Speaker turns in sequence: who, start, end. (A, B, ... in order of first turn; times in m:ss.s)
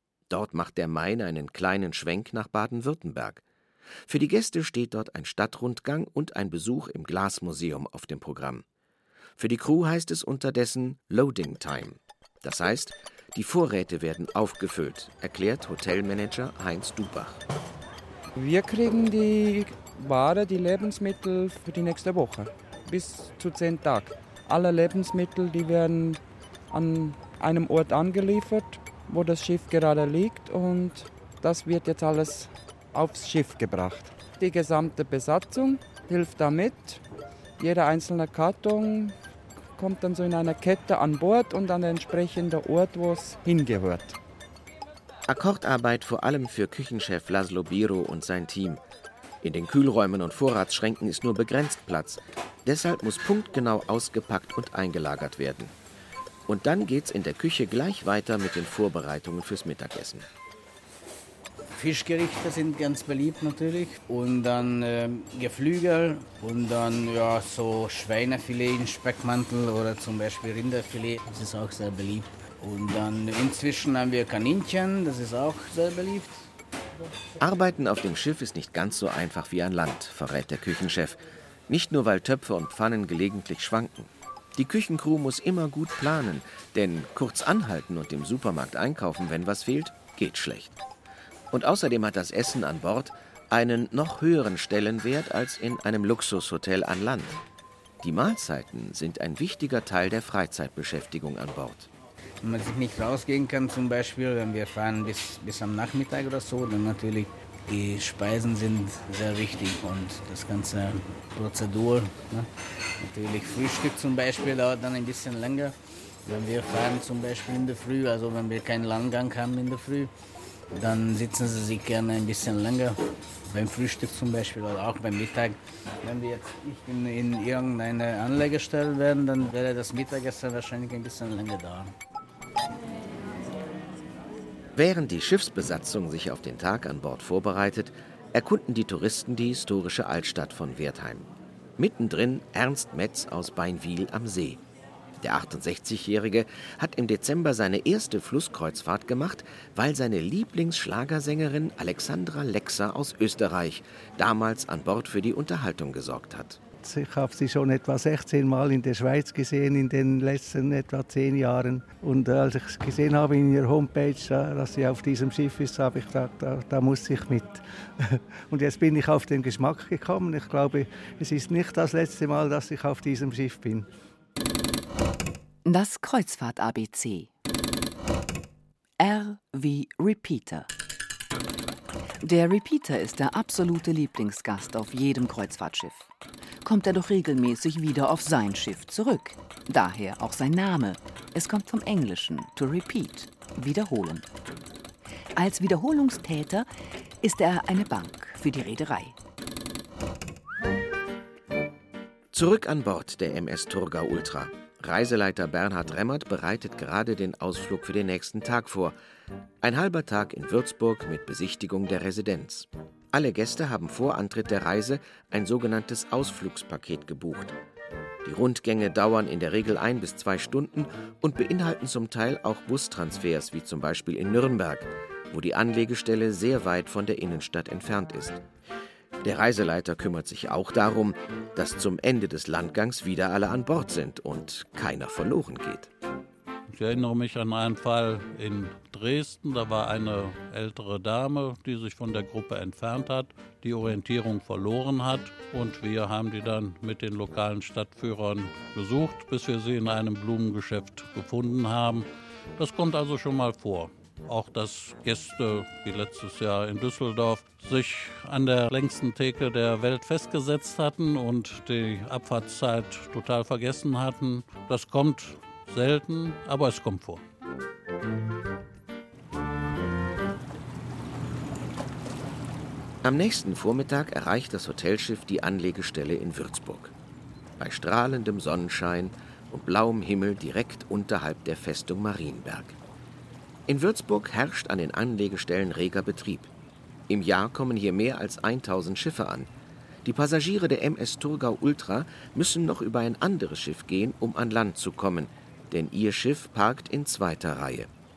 0:00.3-0:03.4 A
0:04.1-0:08.6 A
0:09.4-0:17.4 A
0:18.4-0:37.0 B
0:37.6-0:39.2 B
0:39.8-0:44.2 B
0:45.3-0:48.8 A
0:49.4-0:55.7 A
0:56.5-1:00.3 A
1:01.8-1:16.5 C
1:17.4-1:30.8 A
1:31.5-1:37.4 A
1:38.0-1:41.9 A
1:42.4-1:52.5 C
1:53.0-1:55.7 C
1:56.2-2:00.1 C
2:00.8-2:03.0 C
2:03.5-2:11.9 C
2:14.8-2:24.6 A
2:25.2-2:36.6 A
2:36.8-2:53.9 D
2:55.6-2:57.3 E
2:59.0-3:00.7 E
3:02.2-3:06.1 E
3:06.6-3:14.3 E
3:15.4-3:16.7 E
3:17.2-3:19.2 E
3:22.3-3:29.0 A
3:29.6-3:37.6 A
3:38.2-3:48.4 A
3:49.2-3:55.9 A
3:56.7-4:27.2 F
4:33.0-4:36.9 A
4:37.6-4:42.8 A
4:43.7-4:46.5 A
4:47.1-4:49.5 A
4:50.0-4:57.9 A